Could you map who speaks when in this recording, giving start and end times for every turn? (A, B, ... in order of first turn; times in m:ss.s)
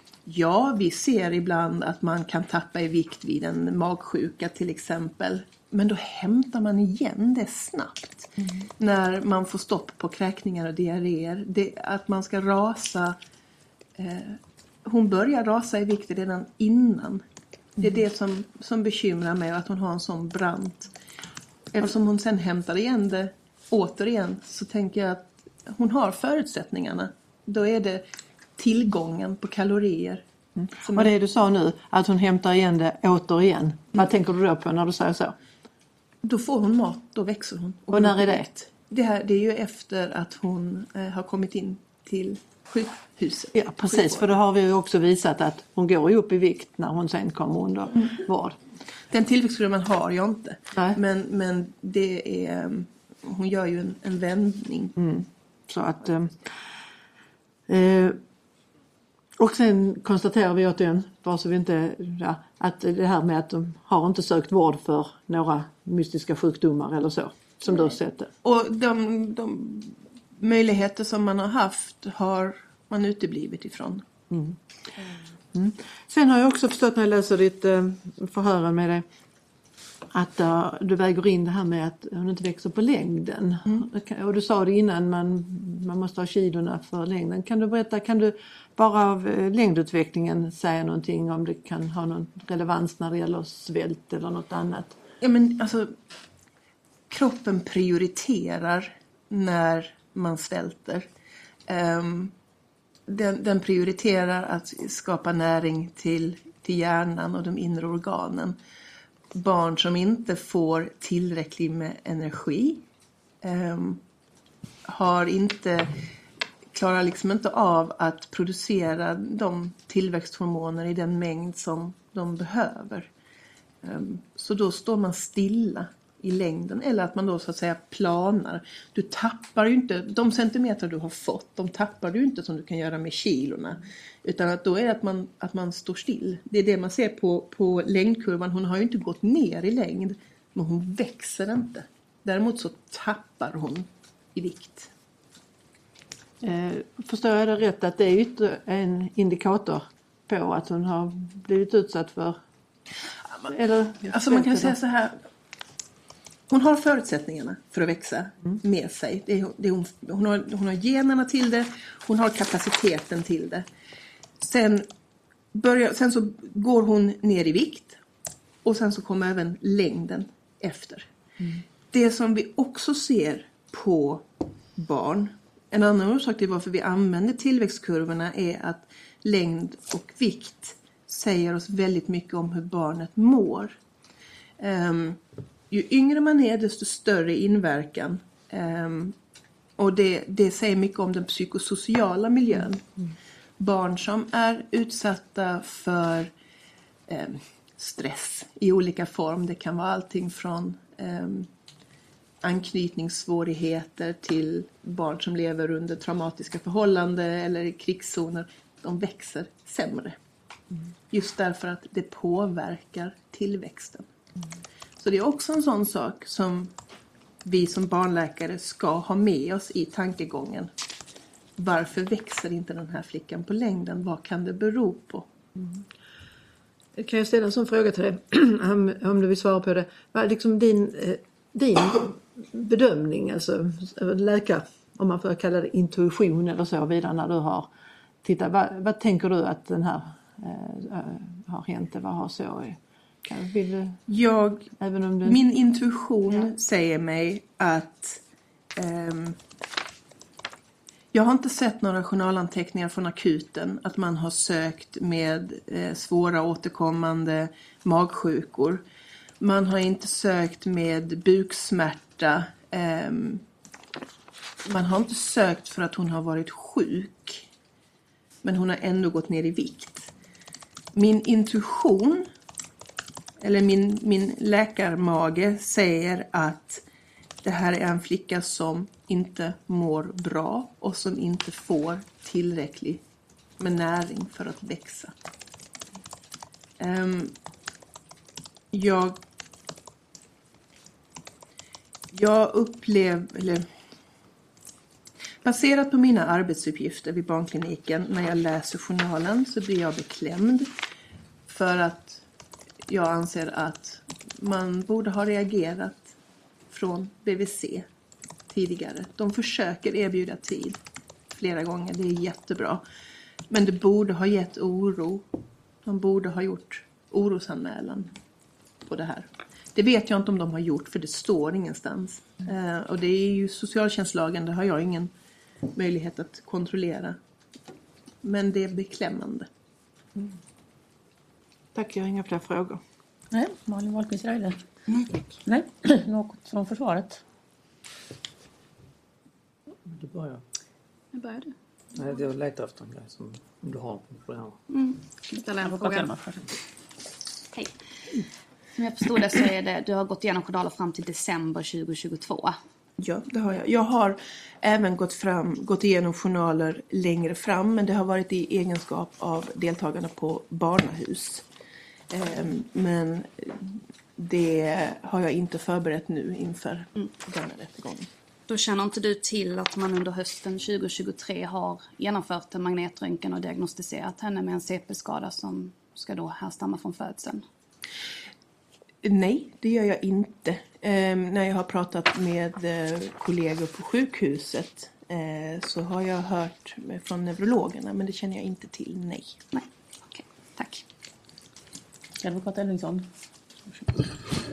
0:00.2-0:13.2 A
0:14.0-0:17.2 A
0:17.8-0:20.9 A
0:21.7-0:28.0 A
0:28.6-0:30.2 A
0:30.6-0:35.3 B
0:30.8-0:31.1 A
0:36.2-0:44.3 A
0:37.9-0:38.4 B
0:43.5-0:48.6 B
0:49.1-0:54.9 A
0:55.0-0:56.5 B
0:57.7-0:58.2 B
0:59.4-1:08.3 B
1:08.4-1:14.0 A
1:14.3-1:14.6 B
1:15.5-1:19.0 B
1:20.1-1:35.0 B
1:35.2-1:35.9 A
1:37.1-1:41.1 A
1:41.7-1:42.3 A
1:43.1-1:48.6 A
1:49.3-1:52.8 A
1:53.4-1:54.0 A
1:54.8-1:56.0 A
1:56.7-2:03.1 A
2:03.8-2:24.9 A
2:26.4-2:32.4 B
2:33.4-2:34.8 B
2:34.0-2:35.2 A
2:36.5-2:43.7 A
2:44.4-2:44.9 A
2:45.5-2:48.0 A
2:48.6-2:51.1 A
2:51.9-3:03.8 A
3:04.6-3:09.2 A
3:09.8-3:12.9 A
3:13.6-3:16.3 A
3:17.1-3:21.5 A
3:22.4-3:30.2 A
3:31.1-3:34.1 A
3:35.0-3:36.7 A
3:37.4-3:40.7 A
3:41.6-3:45.3 A
3:47.0-3:57.7 B
3:58.2-4:04.0 B
4:04.1-4:08.2 A
4:04.8-4:05.4 B
4:08.7-4:09.4 A
4:11.1-4:18.8 A
4:19.4-4:23.4 A
4:24.6-4:27.5 A
4:28.4-4:30.1 A
4:30.9-4:32.3 A
4:33.4-4:36.8 A
4:37.4-4:43.0 A
4:43.6-4:45.1 A
4:46.8-4:47.4 A
4:48.7-4:49.2 A
4:52.1-4:53.7 A
4:55.4-5:00.7 A
5:01.4-5:02.2 A
5:02.9-5:06.2 A
5:06.7-5:07.9 A
5:08.5-5:10.8 A
5:11.3-5:12.8 A
5:13.5-5:15.3 A
5:15.8-5:18.2 A
5:18.8-5:25.1 A
5:25.7-5:27.2 A
5:28.2-5:29.5 A
5:31.7-5:32.8 B
5:33.3-5:34.6 C
5:35.4-5:37.2 C
5:40.0-5:40.4 D
5:41.1-5:41.5 E
5:41.9-5:44.6 D
5:44.7-5:46.1 E
5:45.6-5:46.4 C
5:48.7-5:52.6 E
5:53.0-6:01.4 A
6:02.1-6:08.1 A
6:08.5-6:17.4 E
6:19.0-6:29.4 A
6:29.5-6:30.8 E
6:32.2-6:33.1 C